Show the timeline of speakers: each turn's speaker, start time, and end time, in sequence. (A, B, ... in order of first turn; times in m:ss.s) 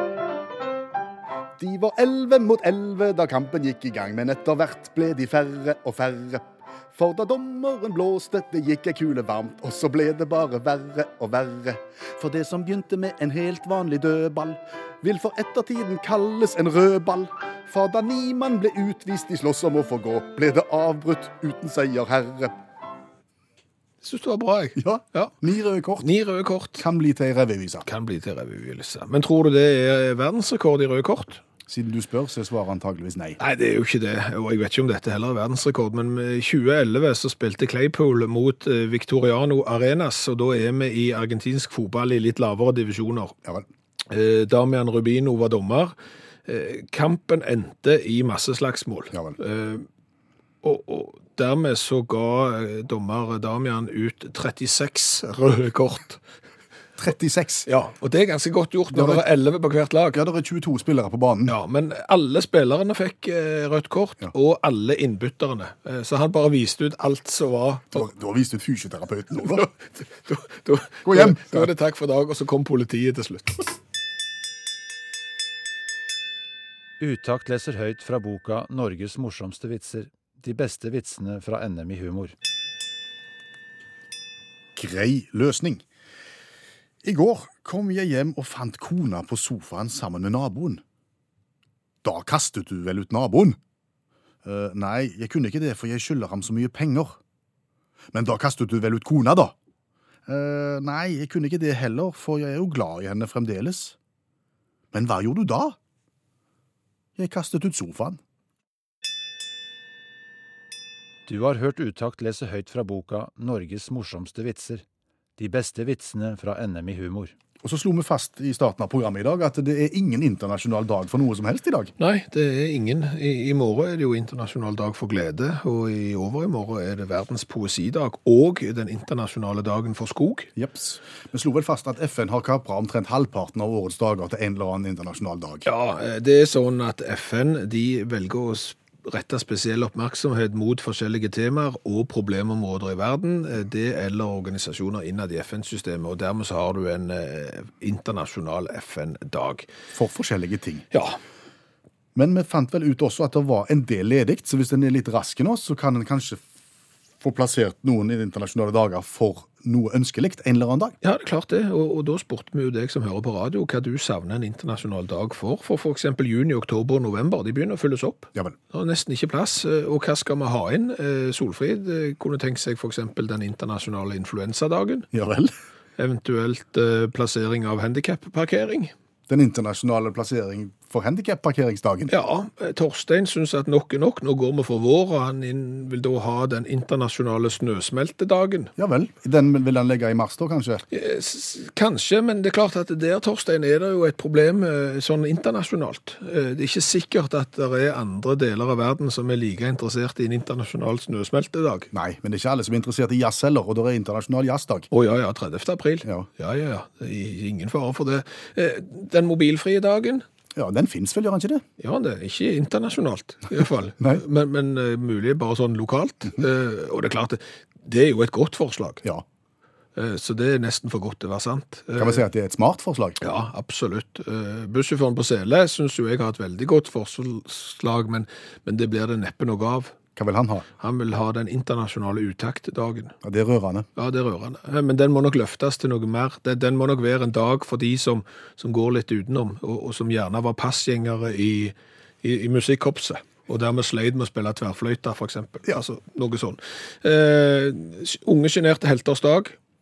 0:01.6-0:22.5 A
0:24.0-0:25.3 B
0:24.8-0:26.1 A
0:26.0-0:26.8 B
0:26.8-0:27.9 A
0:27.8-0:31.4 B
0:31.7-0:33.4 A
0:33.4-0:43.3 B
0:44.1-0:45.9 B
0:46.4-0:49.8 B
0:49.1-0:49.4 A
0:50.6-0:56.2 B
0:57.0-0:57.7 A
0:57.7-1:00.2 B
0:58.9-0:59.2 A
1:00.1-1:01.6 A
1:01.5-1:08.1 B
1:07.9-1:09.7 A
1:09.4-1:13.8 B
1:11.0-1:11.7 A
1:17.0-1:22.3 C
1:24.8-1:25.8 A
1:27.0-1:30.8 A
1:32.0-1:33.6 A
1:34.4-1:37.2 A
1:38.1-1:39.5 A
1:40.3-1:44.0 A
1:44.9-1:45.8 A
1:47.2-1:48.2 A
1:51.2-1:54.8 C
1:55.4-1:57.3 C
1:57.6-2:01.9 A
2:02.0-2:10.5 B
2:10.6-2:15.7 A
2:15.6-2:29.7 B
2:29.9-2:30.9 A
2:30.9-2:31.2 B
2:32.1-2:36.4 A
2:37.2-2:40.9 A
2:41.0-2:55.1 B
2:55.1-2:55.5 A
2:56.0-2:58.9 B
2:59.3-3:02.1 A
3:02.1-3:08.7 B
3:08.8-3:10.8 A
3:10.9-3:21.9 B
3:21.9-3:24.9 A
3:24.9-3:30.2 B
3:30.5-3:31.6 A
3:31.8-3:39.0 B
3:39.9-3:42.2 B
3:42.0-3:43.2 A
3:43.2-3:49.9 B
3:50.2-3:50.7 A
3:50.8-3:53.2 B
3:53.2-3:53.9 A
3:54.0-4:09.6 B